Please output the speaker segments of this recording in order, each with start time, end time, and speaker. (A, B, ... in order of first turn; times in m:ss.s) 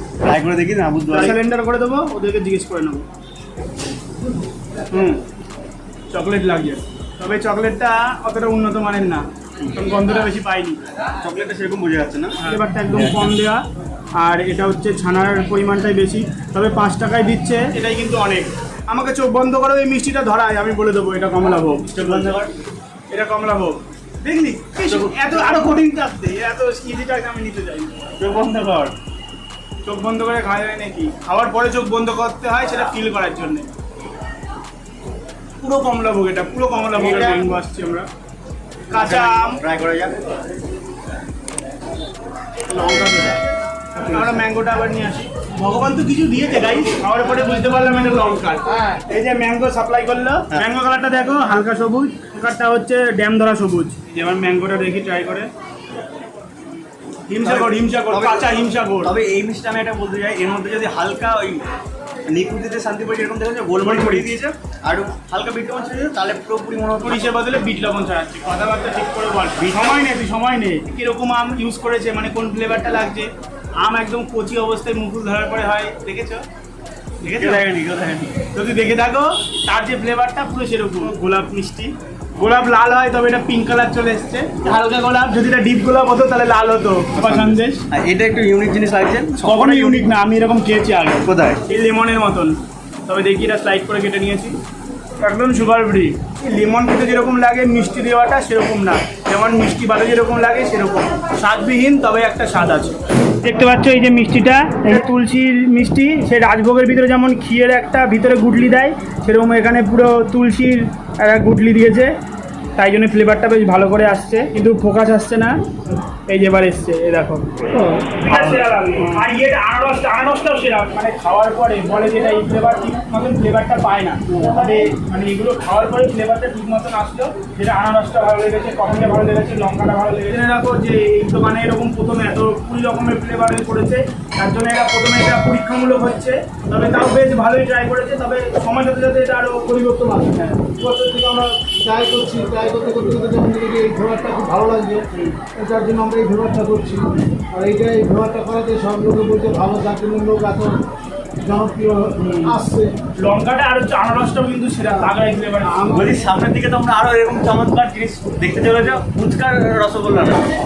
0:00.2-0:01.4 A
0:01.1-0:03.1 B
0:04.9-0:05.2 B
0:06.1-0:10.8 B
0:11.2-0:13.3 A
0:12.4-0:22.4 B
0:21.9-0:22.5 A
0:23.1-0:28.0 B
0:24.8-0:25.8 A
0:28.2-0:28.9 A
0:29.8-0:33.7 B
0:35.6-0:38.1 B
0:37.0-0:37.4 A
0:38.9-0:39.6 B
0:38.9-0:40.2 A
0:42.7-0:43.4 B
0:44.0-0:55.5 B
0:57.3-0:59.1 B
0:57.4-1:01.6 A
1:02.3-1:07.2 A
1:03.8-1:04.4 B
1:07.0-1:16.4 B
1:09.6-1:10.1 A
1:17.2-1:17.7 B
1:17.4-1:18.4 A
1:18.4-1:27.8 B
1:27.2-1:30.1 A
1:29.4-1:34.6 B
1:31.2-1:31.6 A
1:35.2-1:52.1 B
1:52.8-2:20.7 B
1:58.4-1:58.6 A
2:20.8-2:30.8 C
2:31.4-2:33.0 C
2:32.2-2:32.6 B
2:33.1-2:35.9 B
2:35.6-2:36.0 C
2:35.9-2:40.5 A